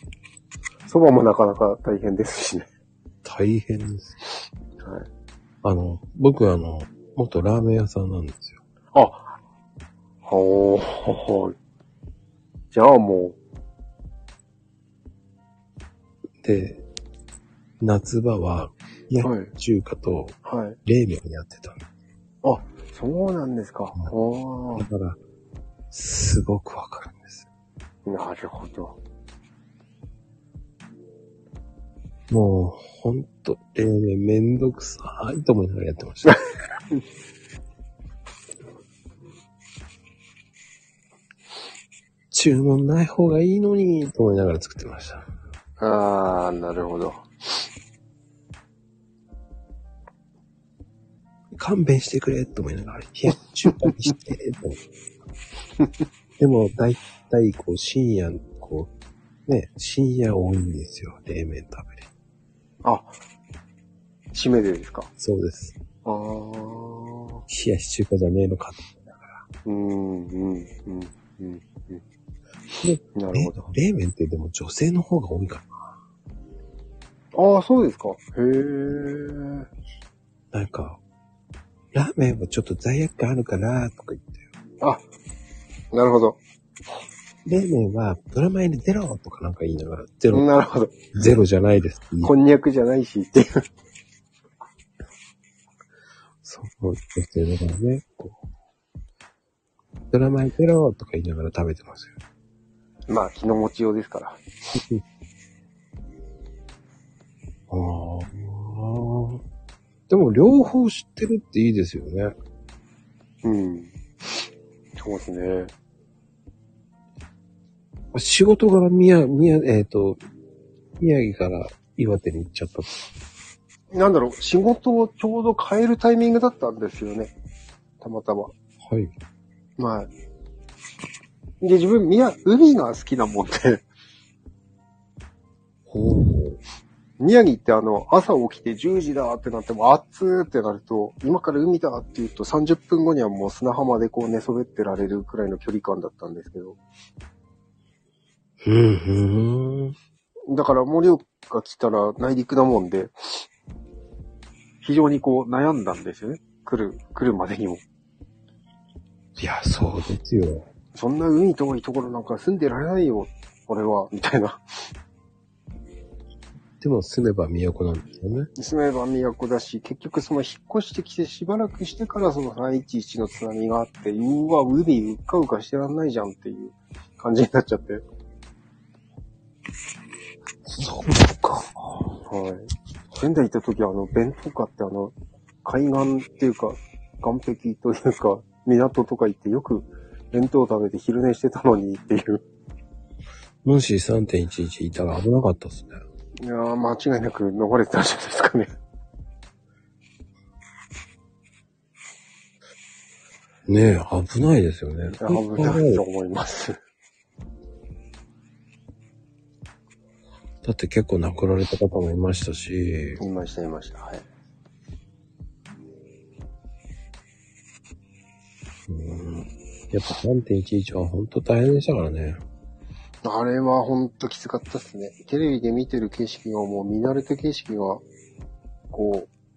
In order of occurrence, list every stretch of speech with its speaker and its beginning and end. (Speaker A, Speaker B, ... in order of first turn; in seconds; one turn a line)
Speaker A: 0.9-2.7
Speaker B: 3.2-4.1
Speaker A: 4.8-5.1
Speaker B: 5.6-8.6
Speaker A: 8.9-9.3
Speaker A: 10.3-11.6
Speaker A: 12.7-13.4
Speaker B: 16.4-16.8
Speaker B: 17.8-21.8
Speaker A: 19.2-19.5
Speaker A: 20.4-20.8
Speaker A: 22.4-24.9
Speaker B: 24.8-25.2
Speaker B: 25.9-27.4
Speaker A: 28.1-28.9
Speaker B: 32.3-36.4
Speaker B: 42.3-45.3
Speaker A: 45.8-47.2
Speaker B: 51.5-54.8
Speaker B: 56.4-58.9
Speaker B: 59.5-62.1
Speaker A: 62.8-63.1
Speaker A: 64.3-65.1
Speaker B: 65.2-65.8
Speaker A: 66.0-67.4
Speaker B: 67.5-69.4
Speaker A: 69.6-72.0
Speaker B: 72.8-75.7
Speaker A: 73.1-73.6
Speaker A: 77.3-79.7
Speaker B: 80.5-81.0
Speaker B: 81.9-84.4
Speaker A: 85.9-86.4
Speaker B: 87.4-90.5
Speaker A: 90.3-90.9
Speaker B: 91.1-92.3
Speaker A: 92.2-93.6
Speaker B: 96.4-98.4
Speaker B: 100.1-102.2
Speaker A: 103.1-104.4
Speaker B: 104.7-105.0
Speaker B: 107.7-109.4
Speaker B: 110.1-112.3
Speaker A: 113.4-113.9
Speaker A: 115.0-115.7
Speaker B: 118.1-120.2
Speaker B: 121.0-122.9
Speaker A: 123.9-127.3
Speaker A: 128.0-128.5
Speaker B: 128.8-129.1
Speaker A: 129.8-130.1
Speaker A: 131.6-133.8
Speaker B: 135.9-136.6
Speaker A: 137.2-146.8
Speaker B: 148.6-149.9
Speaker A: 150.5-153.1
Speaker A: 154.8-157.8
Speaker B: 159.4-160.7
Speaker A: 160.9-164.6
Speaker B: 166.8-168.5
Speaker A: 168.6-178.0
Speaker B: 180.7-182.1
Speaker A: 182.3-185.1
Speaker A: 185.6-192.4
Speaker B: 193.6-196.0
Speaker A: 196.4-198.7
Speaker B: 203.7-206.0
Speaker A: 205.2-206.8
Speaker B: 210.6-213.2
Speaker A: 213.2-214.3
Speaker B: 218.9-222.4
Speaker A: 223.2-228.0
Speaker A: 228.9-229.3